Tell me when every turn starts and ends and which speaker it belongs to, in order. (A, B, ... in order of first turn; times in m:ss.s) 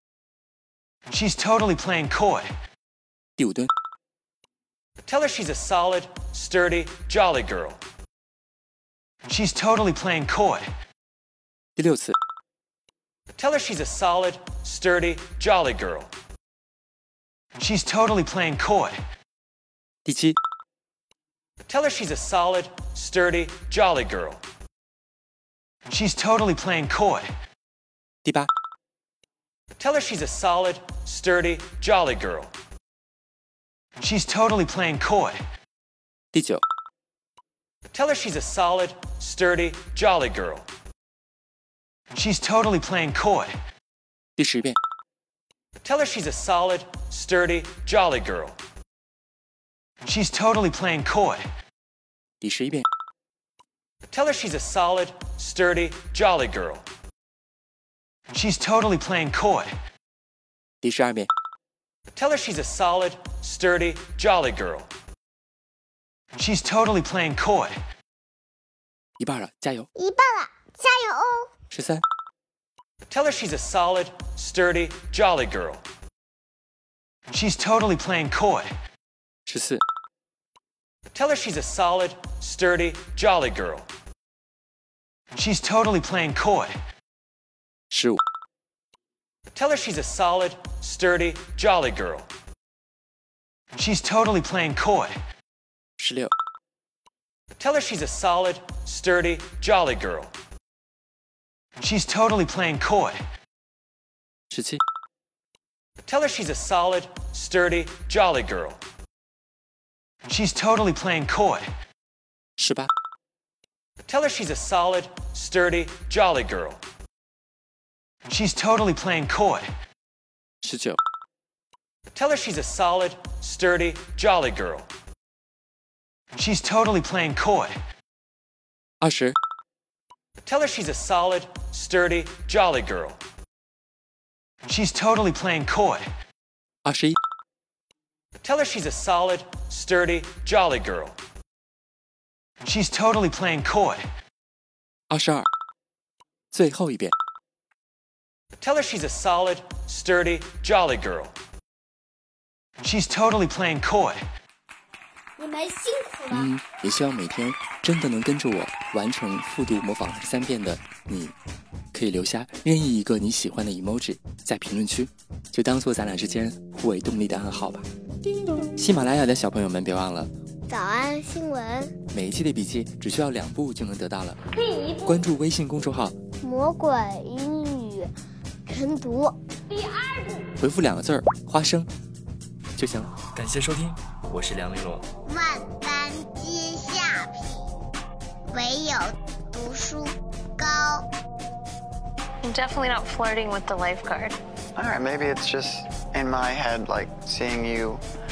0:01.1-0:02.5 A
0:03.4-0:03.7 B
0:05.0-0:07.8 A
0:09.3-0:10.7 A
0:11.8-0:12.1 B
0:13.4-0:16.1 A
0:17.6-0:19.0 A
0:20.0-0:20.4 B
0:21.7-0:24.4 A
0:25.9-0:27.3 A
0:28.2-0:28.5 B
0:29.8-0:32.5 A
0:34.0-0:35.4 A
0:36.3-0:36.6 B
0:37.9-0:40.7 A
0:42.1-0:43.6 A
0:44.4-0:44.8 B
0:45.8-0:48.6 A
0:50.0-0:51.5 A
0:52.4-0:52.8 B
0:54.1-0:56.9 A
0:58.3-0:59.8 A
1:00.8-1:01.3 B
1:02.1-1:04.9 A
1:06.3-1:07.8 A
1:09.2-1:09.9 B
1:10.0-1:11.5 C
1:11.7-1:12.0 B
1:13.1-1:15.8 A
1:17.3-1:18.7 A
1:19.4-1:19.8 B
1:21.1-1:23.9 A
1:25.3-1:26.8 A
1:27.9-1:28.2 B
1:29.5-1:32.3 A
1:33.7-1:35.2 A
1:36.0-1:36.3 B
1:37.6-1:40.3 A
1:41.8-1:43.2 A
1:44.5-1:44.8 B
1:46.0-1:48.8 A
1:50.3-1:51.7 A
1:52.6-1:52.9 B
1:54.0-1:56.8 A
1:58.3-1:59.7 A
2:00.6-2:01.0 B
2:02.1-2:04.9 A
2:06.3-2:07.8 A
2:09.0-2:09.4 B
2:10.4-2:13.2 A
2:14.6-2:16.1 A
2:16.8-2:17.2 B
2:18.4-2:21.2 A
2:22.6-2:24.1 A
2:25.1-2:25.5 B
2:26.5-2:27.1 B
2:28.6-2:31.4 A
2:32.8-2:34.2 A
2:35.4-2:36.5 C
2:36.3-2:41.3 B
2:41.9-2:47.8 B
2:48.8-2:50.3 B
2:50.7-2:51.9 C
2:52.1-2:54.4 B
2:55.0-2:56.2 B
2:56.4-2:58.1 C
2:58.6-2:59.4 C
3:00.6-3:01.9 B
3:02.8-3:05.0 B
3:05.2-3:07.7 C
3:08.5-3:11.0 C
3:12.4-3:14.4 D
3:14.8-3:18.0 E